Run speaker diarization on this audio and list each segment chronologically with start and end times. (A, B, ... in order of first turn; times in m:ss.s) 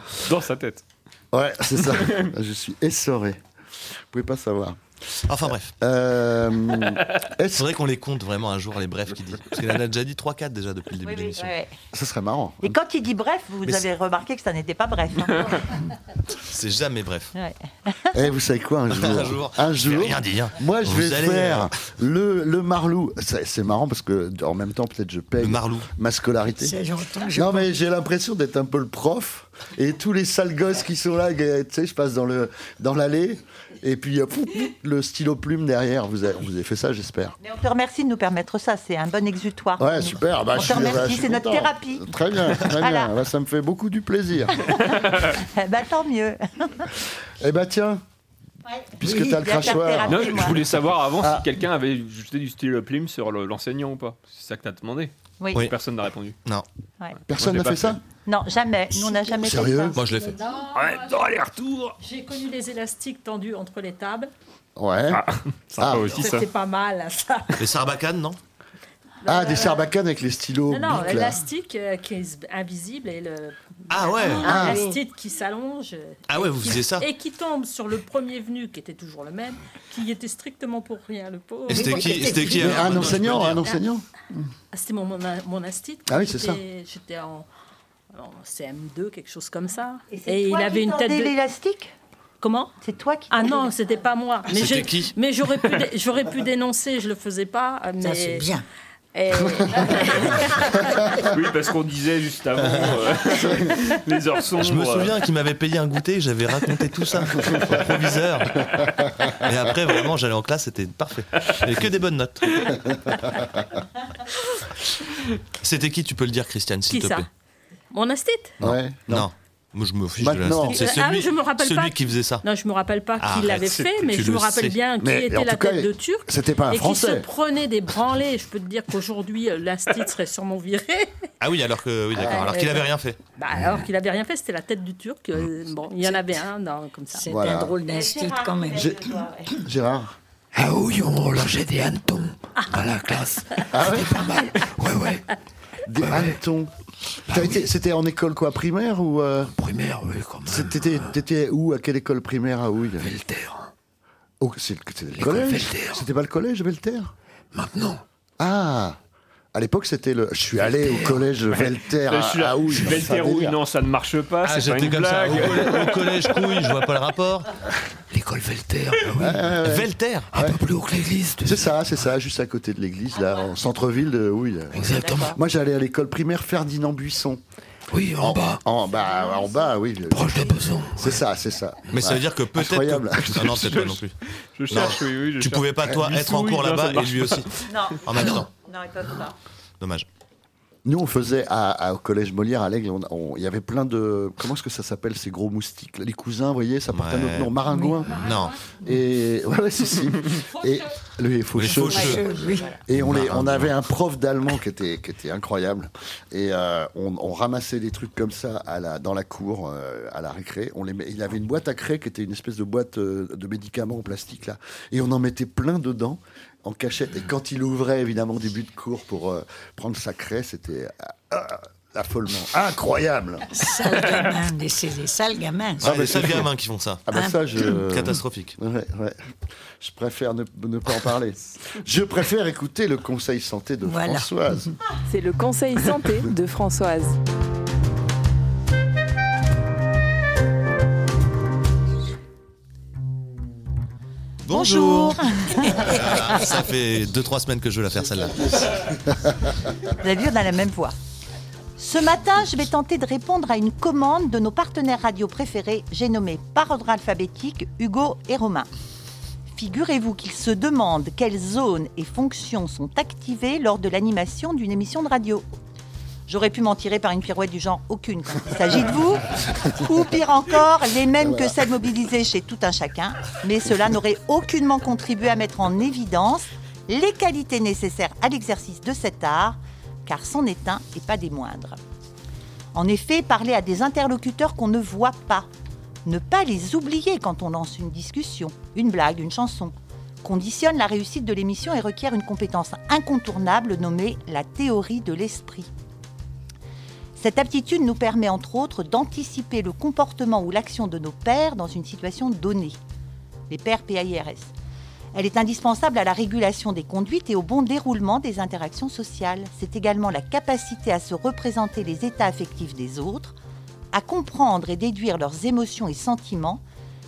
0:00.2-0:00.8 A
0:01.3-0:03.4 B
0:01.8-0:02.3 A
0:04.1-0:04.8 B
0:05.3-0:05.7 C
0:05.4-0:07.7 B
0:07.6-0:11.5 C
0:11.0-0:11.7 D
0:11.9-0:12.8 B
0:12.6-0:15.8 D
0:16.4-0:17.3 C
0:17.3-0:18.2 D
0:18.1-0:26.8 B
0:18.9-0:21.7 C
0:25.4-0:25.9 C
0:26.6-0:27.7 E
0:27.3-0:37.4 B
0:37.4-0:43.1 D
0:39.8-0:44.8 B
0:44.9-0:46.9 D
0:47.4-0:48.0 B
0:48.6-0:50.7 D
0:49.0-0:51.4 B
0:50.1-0:56.4 A
0:55.4-0:55.7 D
0:57.3-0:58.0 B
0:57.4-0:58.0 A
0:58.2-1:00.0 D
0:59.3-1:00.0 B
0:59.9-1:00.4 C
1:00.0-1:01.3 F
1:00.7-1:02.0 A
1:02.0-1:04.3 F
1:04.8-1:05.2 B
1:05.1-1:06.5 A
1:05.8-1:06.3 B
1:05.9-1:07.8 F
1:07.6-1:08.4 C
1:09.2-1:09.9 F
1:09.2-1:11.4 B
1:10.7-1:22.5 F
1:13.9-1:14.8 C
1:14.4-1:14.8 B
1:16.3-1:17.1 C
1:21.7-1:23.6 C
1:21.7-1:23.1 E
1:22.5-1:24.0 B
1:24.7-1:27.5 F
1:26.1-1:26.6 B
1:28.1-1:31.3 F
1:30.1-1:31.9 D
1:32.4-1:32.7 F
1:32.8-1:33.7 D
1:33.3-1:38.5 F
1:34.5-1:35.2 C
1:38.0-1:38.6 E
1:39.1-1:41.3 F
1:41.2-1:45.2 A
1:42.6-1:43.0 C
1:43.3-1:43.7 B
1:44.6-1:52.8 C
1:55.6-1:57.3 C
1:56.8-1:57.3 F
1:57.9-1:58.6 F
1:58.6-1:59.3 B
1:58.6-2:02.4 C
2:00.1-2:00.8 B
2:00.7-2:11.3 F
2:03.2-2:04.8 C
2:05.0-2:07.3 B
2:11.4-2:13.2 C
2:12.1-2:17.3 F
2:12.2-2:12.5 B
2:17.1-2:19.2 E
2:17.3-2:17.8 B
2:17.8-2:19.6 D
2:19.5-2:20.2 B
2:20.5-2:25.2 G
2:23.7-2:24.3 B
2:25.8-2:26.7 B
2:26.0-2:26.4 G
2:27.3-2:27.7 G
2:27.3-2:29.5 B
2:29.5-2:31.2 G
2:30.4-2:33.1 B
2:33.0-2:33.7 G
2:34.4-2:37.1 B
2:35.2-2:36.0 G
2:37.5-2:38.0 G
2:38.4-2:39.0 B
2:39.5-2:43.6 B
2:40.6-2:41.3 G
2:41.5-2:46.7 A
2:44.4-2:47.5 C
2:48.1-2:49.6 G
2:49.2-2:50.6 B
2:49.6-2:50.4 C
2:50.3-2:51.8 G
2:51.4-2:57.4 B
2:54.7-2:55.4 G
2:54.7-2:55.4 D
2:57.9-2:58.6 G
2:58.1-3:03.8 B
3:00.0-3:01.2 G
3:01.9-3:04.1 C
3:03.6-3:07.9 A
3:04.7-3:08.5 C
3:07.7-3:09.4 D
3:08.1-3:08.4 G
3:09.8-3:10.1 C
3:10.8-3:43.6 B
3:16.9-3:17.6 C
3:17.7-3:18.0 E
3:18.1-3:18.6 C
3:21.5-3:22.2 C
3:21.8-3:22.8 E
3:22.9-3:23.7 C
3:43.5-3:45.9 E
3:45.8-3:46.5 B
3:45.8-3:48.5 C
3:47.1-3:54.7 B
3:47.1-3:47.7 E
3:53.8-3:54.7 E
3:55.1-3:57.2 H
4:04.4-4:08.9 C
4:04.5-4:06.6 D
4:08.6-4:09.3 B
4:09.8-4:10.9 D
4:11.8-4:18.7 D
4:19.5-4:25.4 D
4:26.3-4:41.8 D
4:31.2-4:31.6 B
4:42.7-4:45.5 D
4:46.0-4:55.7 D
4:57.2-5:02.8 D
5:03.5-5:04.5 D
5:05.1-5:13.4 D
5:13.9-5:16.6 D